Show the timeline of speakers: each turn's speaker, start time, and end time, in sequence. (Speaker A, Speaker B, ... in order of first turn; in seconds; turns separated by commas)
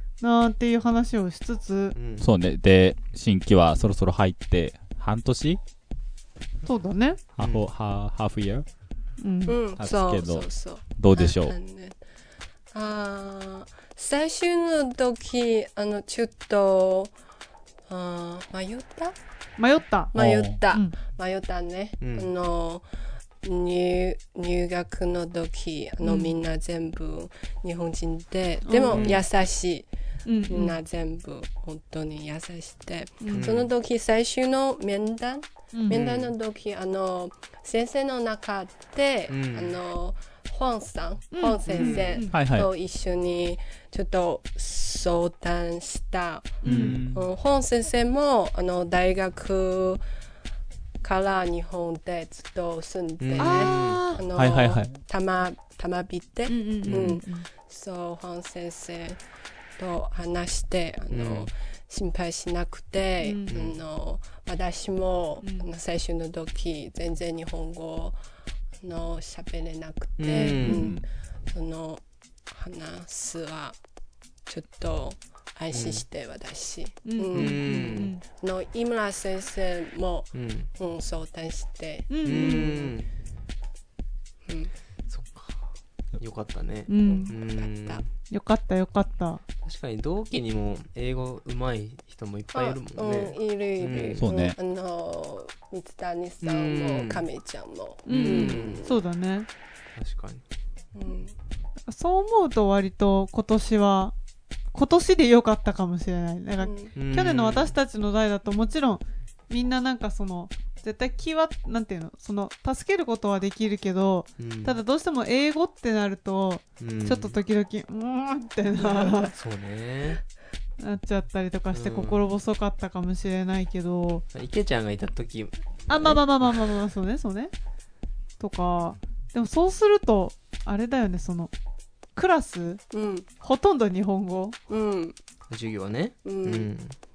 Speaker A: 0.2-1.9, Speaker B: 1.9-2.3, Speaker C: 2.2-5.6, Speaker A: 6.7-7.2, Speaker C: 7.4-8.7, Speaker B: 7.4-7.6, Speaker A: 9.2-9.6, Speaker D: 9.5-12.0, Speaker C: 9.8-11.6, Speaker D: 12.7-17.1, Speaker D: 17.9-19.1, Speaker A: 19.6-20.1, Speaker D: 20.1-22.9, Speaker C: 20.1-20.6, Speaker B: 22.0-22.3, Speaker D: 23.4-29.9, Speaker A: 26.0-26.4, Speaker A: 28.6-29.2, Speaker B: 28.9-29.2, Speaker A: 30.2-30.8, Speaker D: 30.5-50.0, Speaker A: 33.2-33.5, Speaker B: 33.3-33.7, Speaker A: 35.7-36.0, Speaker B: 35.9-36.3, Speaker B: 39.3-39.8, Speaker A: 41.3-42.3, Speaker B: 41.7-42.2, Speaker C: 42.3-42.7, Speaker A: 46.6-46.9, Speaker B: 46.6-47.0, Speaker C: 46.6-47.2, Speaker D: 51.0-59.2, Speaker B: 53.2-54.0, Speaker A: 53.4-54.2, Speaker C: 54.3-55.0, Speaker A: 56.5-57.5, Speaker B: 56.9-57.2, Speaker D: 59.8-68.2, Speaker B: 61.1-61.5, Speaker A: 63.2-63.5, Speaker B: 63.5-63.8, Speaker A: 65.4-65.7, Speaker D: 68.8-73.8, Speaker B: 70.2-70.8, Speaker A: 70.5-70.9, Speaker C: 70.7-71.0, Speaker D: 74.5-77.6, Speaker B: 75.7-76.0, Speaker A: 77.0-78.2, Speaker B: 77.3-78.1, Speaker D: 78.3-82.9, Speaker B: 80.3-80.7, Speaker A: 82.1-82.7, Speaker B: 82.2-83.1, Speaker D: 84.5-84.7, Speaker B: 85.1-88.1, Speaker A: 86.9-87.3, Speaker D: 87.0-88.0, Speaker A: 88.3-89.4, Speaker B: 89.6-94.2, Speaker D: 92.5-99.0, Speaker C: 94.2-94.6, Speaker B: 96.4-97.2, Speaker A: 98.0-99.5, Speaker B: 98.1-98.8, Speaker B: 100.0-100.4, Speaker D: 100.9-101.3, Speaker A: 101.9-104.1, Speaker A: 104.7-119.3, Speaker D: 106.6-106.9, Speaker B: 107.0-107.7, Speaker B: 114.4-114.8, Speaker B: 116.8-117.4, Speaker B: 119.3-120.2, Speaker A: 120.8-124.2, Speaker B: 121.7-122.3, Speaker B: 124.3-126.5, Speaker A: 125.9-127.5, Speaker A: 128.4-131.5, Speaker A: 132.1-132.8, Speaker D: 132.9-133.3, Speaker A: 133.4-134.6, Speaker D: 134.7-135.2, Speaker B: 135.5-136.9, Speaker D: 136.2-136.7